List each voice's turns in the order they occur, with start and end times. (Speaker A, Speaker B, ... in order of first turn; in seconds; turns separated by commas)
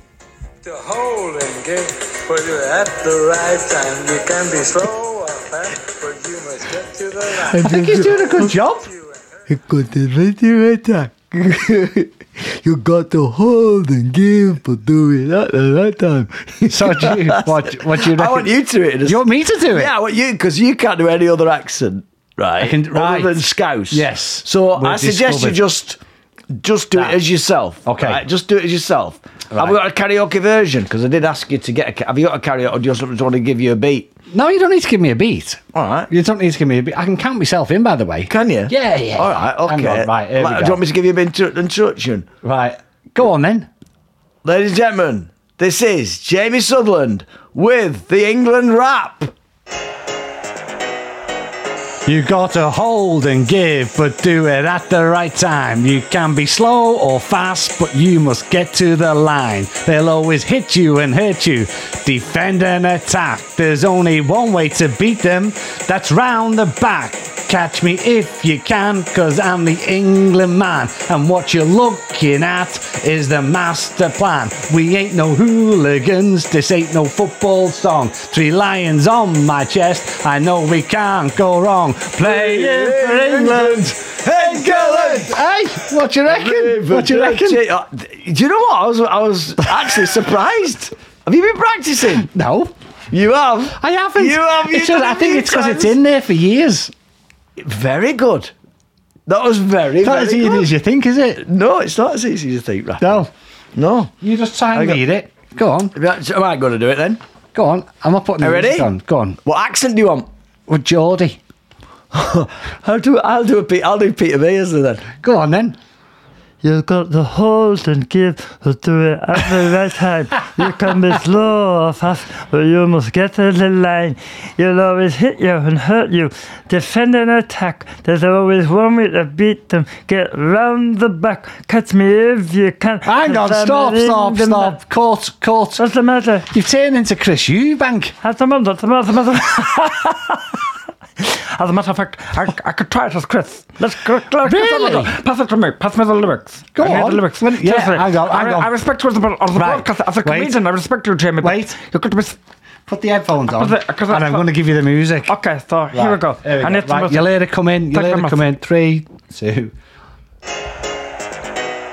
Speaker A: 0.6-9.4, Speaker B: 7.4-8.5, Speaker C: 7.5-8.9, Speaker B: 9.5-26.0, Speaker C: 16.7-18.5, Speaker C: 19.1-19.9, Speaker C: 22.6-23.4, Speaker C: 23.9-25.6, Speaker B: 26.6-34.1, Speaker C: 27.9-28.2, Speaker C: 29.5-29.8, Speaker C: 34.3-40.8, Speaker B: 35.7-36.1, Speaker B: 38.3-42.3, Speaker C: 42.4-43.7, Speaker B: 44.4-49.3, Speaker C: 52.0-87.6, Speaker B: 82.2-85.4, Speaker B: 86.3-92.3, Speaker C: 92.2-92.7, Speaker B: 93.1-96.0, Speaker C: 93.8-96.9, Speaker B: 97.6-98.5, Speaker B: 99.3-100.7, Speaker C: 100.0-101.4, Speaker B: 101.4-104.1, Speaker C: 103.0-103.3, Speaker C: 104.2-105.9, Speaker B: 104.7-105.0, Speaker B: 106.0-107.2, Speaker C: 107.5-109.4, Speaker B: 108.4-108.9, Speaker B: 109.4-110.3, Speaker C: 110.7-111.4, Speaker B: 112.1-115.1, Speaker C: 115.2-115.8, Speaker D: 116.6-134.8, Speaker C: 133.1-135.8, Speaker D: 135.8-136.5, Speaker C: 136.5-138.2, Speaker D: 138.2-140.6, Speaker D: 141.2-152.4, Speaker C: 144.4-145.1, Speaker C: 146.8-148.7, Speaker C: 149.6-150.6, Speaker C: 151.4-151.8, Speaker C: 152.9-155.3, Speaker D: 153.5-154.5, Speaker D: 155.3-157.3, Speaker C: 155.9-159.7, Speaker D: 157.9-158.4